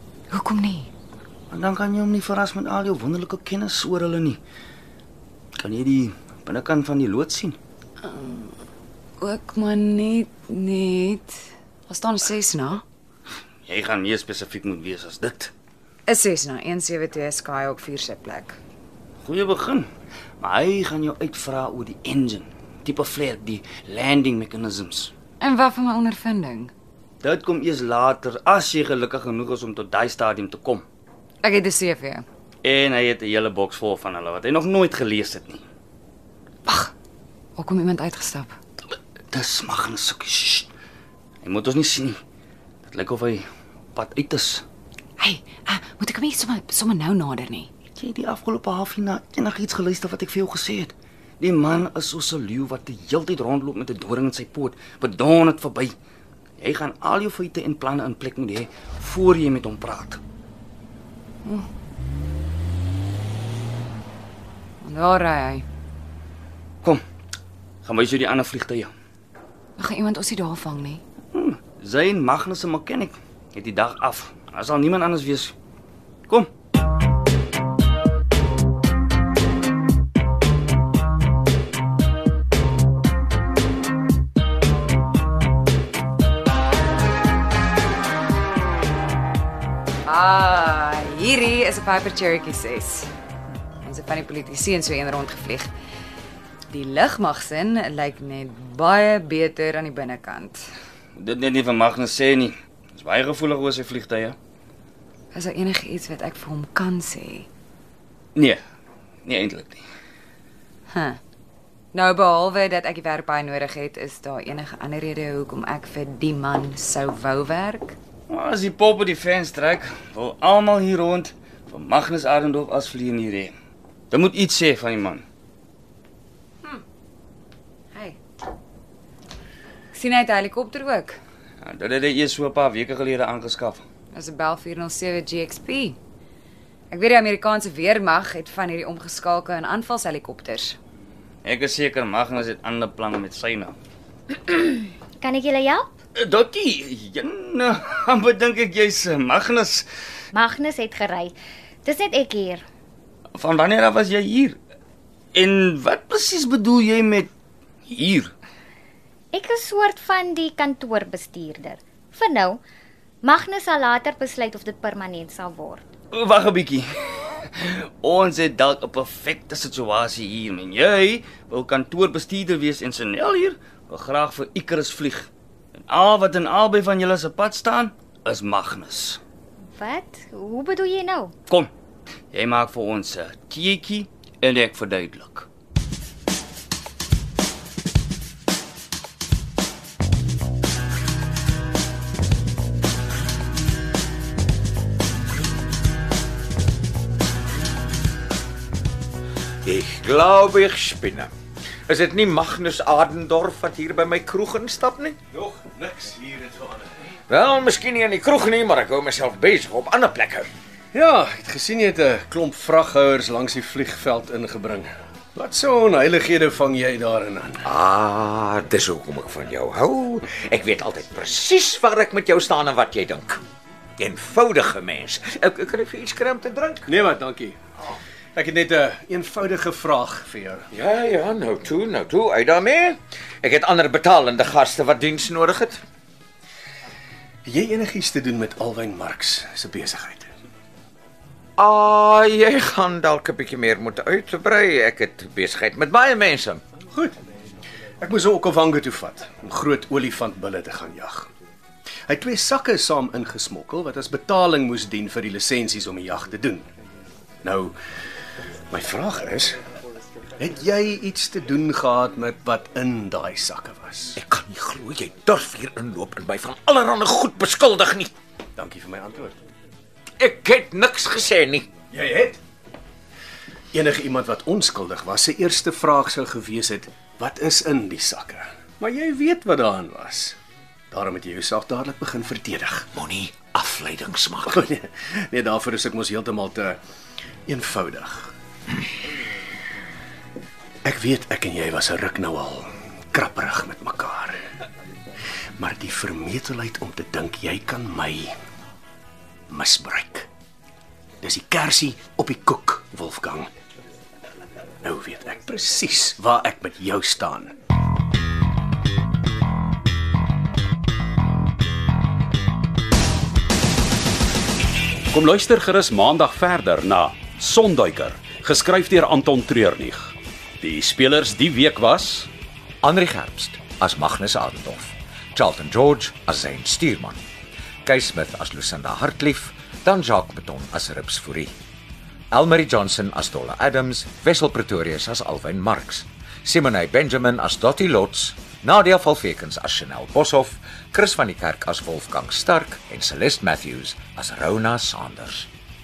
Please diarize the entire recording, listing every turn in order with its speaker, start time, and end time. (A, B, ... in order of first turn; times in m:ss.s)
0:00.3-0:00.9 A
0:01.5-0:04.4 B
0:05.6-0:07.6 B
0:08.0-0:08.6 A
0:09.2-0:12.8 A
0:13.7-0:15.5 B
0:16.1-0:18.6 A
0:19.2-0:19.9 B
0:20.4-0:25.1 B
0:25.4-0:26.7 A
0:27.2-0:30.8 B
0:31.4-0:32.2 A
0:32.6-0:35.6 B
0:36.7-0:36.9 A
0:37.6-0:38.6 A
0:39.3-0:40.7 B
0:41.4-0:42.2 B
0:42.9-0:44.6 B
0:45.2-0:47.7 A
0:48.0-0:56.0 B
0:56.6-1:00.2 B
1:04.8-1:05.6 A
1:07.8-1:08.9 B
1:09.8-1:11.0 A
1:11.3-1:15.5 B
1:30.0-1:33.1 A
1:33.8-1:35.7 A
1:36.7-1:40.6 A
1:41.2-1:44.4 B
1:45.3-1:47.5 A
1:48.4-1:48.6 B
1:49.2-1:49.8 B
1:50.9-1:51.2 A
1:51.9-1:58.0 A
1:58.3-2:03.5 B
2:04.1-2:05.2 B
2:07.9-2:08.2 A
2:09.9-2:11.2 A
2:11.6-2:13.8 B
2:14.1-2:16.0 A
2:16.9-2:20.8 A
2:21.4-2:23.8 B
2:24.6-2:25.9 C
2:26.2-2:29.9 B
2:30.3-2:32.6 C
2:33.3-2:34.6 B
2:35.3-2:37.3 B
2:37.9-2:38.3 B
2:39.3-2:42.6 C
2:43.2-2:45.8 C
2:46.1-2:59.2 B
2:59.8-3:01.3 C
3:02.3-3:05.5 B
3:19.6-3:21.3 D
3:21.9-3:25.2 D
3:25.3-3:26.9 E
3:27.3-3:30.5 D
3:30.9-3:37.7 E
3:37.6-3:43.4 D
3:44.0-3:46.9 D
3:46.9-3:47.6 E
3:48.4-3:50.7 E
3:50.7-3:55.8 D
3:57.5-4:00.3 E
4:01.6-4:06.6 D
4:06.9-4:07.2 E
4:08.0-4:11.3 E
4:12.1-4:16.7 E
4:17.4-4:17.8 E
4:18.7-4:19.6 E
4:20.4-4:24.2 E
4:24.2-4:28.1 D
4:28.6-4:29.4 E
4:30.2-4:31.7 D
4:31.9-4:32.4 E
4:33.7-4:40.4 E
4:40.9-4:42.9 E
4:42.9-4:44.6 D
4:44.5-4:46.8 E
4:47.5-4:48.3 E
4:50.8-4:54.4 E
4:55.6-4:58.3 E
4:59.5-5:00.3 E
5:01.2-5:03.5 E
5:04.8-5:07.6 E
5:15.1-5:22.3 F
5:22.8-5:27.2 D
5:27.8-5:31.5 D
5:32.3-5:45.5 D